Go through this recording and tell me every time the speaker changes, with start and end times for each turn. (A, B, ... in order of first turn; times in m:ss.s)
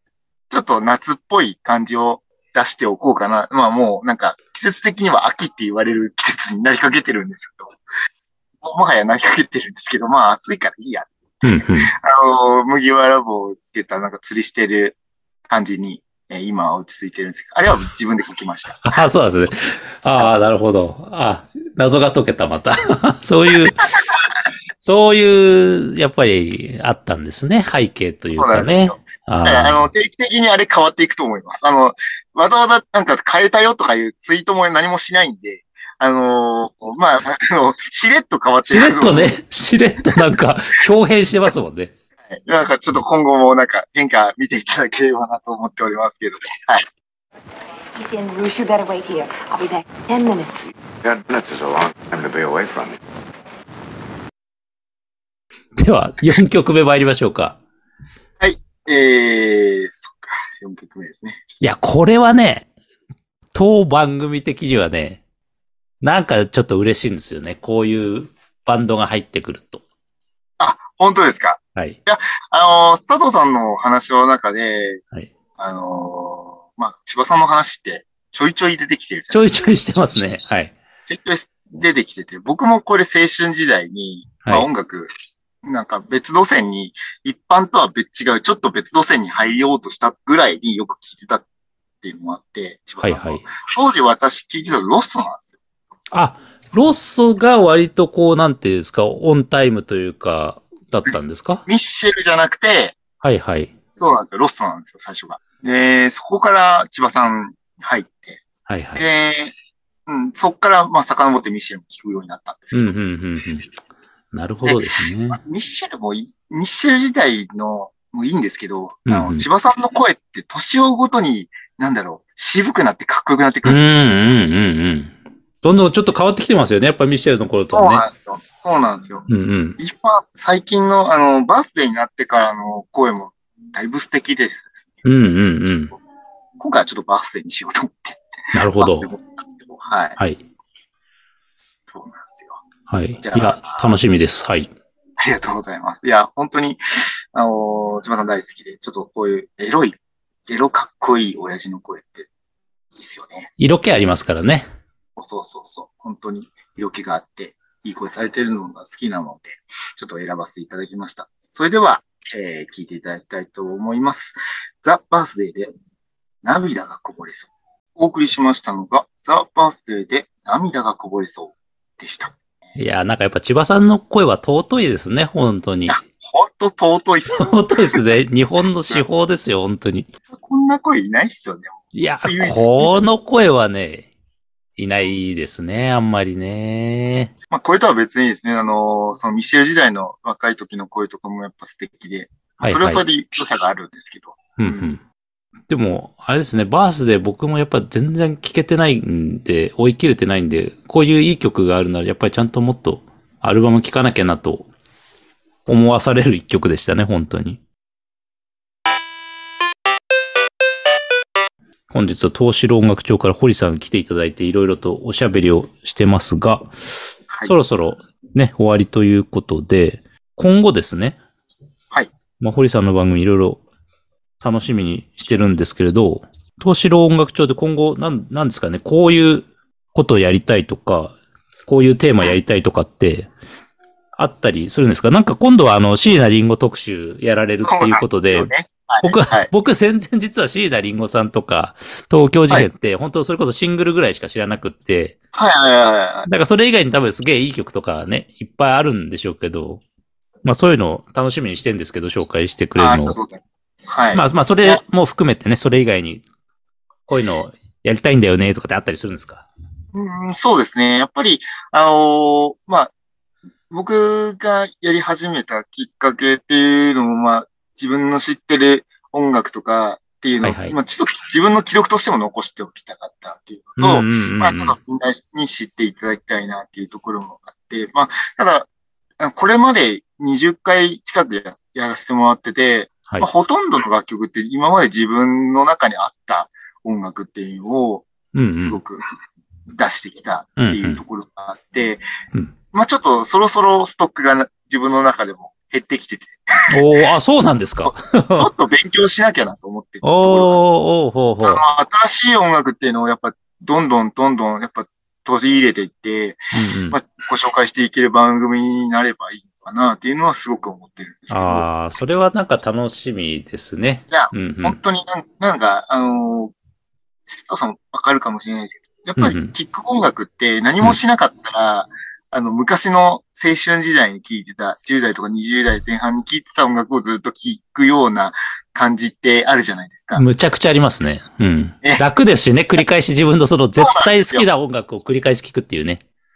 0:00.5-0:07.7 A
0:08.6-0:15.0 A
0:11.4-0:11.9 B
0:15.5-0:19.0 A
0:18.8-0:23.8 B
0:24.8-0:29.9 B
0:28.4-0:39.3 A
0:38.7-0:41.9 B
0:42.3-0:46.8 A
0:48.0-0:50.6 C
0:51.0-0:53.0 D
0:55.8-0:57.6 B
0:58.4-1:01.6 A
1:01.6-1:02.7 B
1:03.5-1:05.2 B
1:06.0-1:09.8 B
1:10.6-1:15.0 A
1:15.6-1:19.7 A
1:19.3-1:20.7 B
1:21.1-1:25.1 A
1:25.6-1:31.4 A
1:32.0-1:35.6 A
1:33.0-1:33.4 B
1:36.1-1:41.6 B
1:41.7-1:43.0 A
1:43.2-1:43.7 B
1:44.0-1:48.4 A
1:48.7-1:49.0 B
1:49.0-1:49.5 A
1:50.1-1:52.9 A
1:52.7-1:53.7 B
1:54.3-1:55.4 B
1:54.6-2:03.8 A
1:59.1-1:59.4 B
2:03.6-2:08.0 B
2:07.7-2:09.3 A
2:09.3-2:09.8 B
2:09.8-2:15.0 A
2:15.0-2:15.9 B
2:16.6-2:18.2 A
2:18.5-2:19.1 B
2:18.8-2:20.2 A
2:21.9-2:22.6 A
2:22.9-2:24.7 B
2:23.2-2:23.9 A
2:25.2-2:26.8 A
2:27.3-2:30.0 A
2:30.5-2:32.3 A
2:32.9-2:33.5 A
2:33.6-2:34.7 B
2:35.2-2:45.7 A
2:46.4-2:52.3 A
2:52.8-2:56.0 B
2:55.9-2:58.0 A
2:57.4-3:00.1 B
3:00.3-3:02.9 A
3:01.9-3:04.1 B
3:04.8-3:07.3 B
3:07.5-3:14.9 A
3:12.6-3:13.0 B
3:14.6-3:15.0 B
3:15.7-3:24.7 B
3:25.6-3:27.6 B
3:31.9-3:41.2 B
3:42.4-3:43.6 B
3:44.4-3:51.1 B
3:51.6-3:53.3 B
3:54.2-3:58.5 B
3:57.6-3:59.5 A
3:59.0-4:05.1 B
4:05.3-4:06.3 A
4:06.3-4:09.8 B
4:10.4-4:13.2 B
4:12.8-4:14.8 A
4:14.1-4:16.2 B
4:17.1-4:19.4 B
4:19.9-4:22.9 A
4:23.7-4:38.7 A
4:30.4-4:30.7 B
4:33.8-4:34.8 B
4:39.2-4:48.1 A
4:48.3-4:48.8 B
4:48.6-4:49.0 A
4:49.7-4:52.0 A
4:50.6-4:51.0 B
4:52.7-4:56.4 A
4:56.7-4:58.5 B
4:57.8-5:00.6 A
5:00.0-5:01.6 B
5:01.4-5:06.4 A
5:06.5-5:07.0 B
5:06.9-5:11.7 A
5:11.3-5:14.8 B
5:14.1-5:16.5 A
5:17.4-5:30.2 A
5:19.2-5:19.5 B
5:30.1-5:36.0 B
5:33.8-5:34.5 A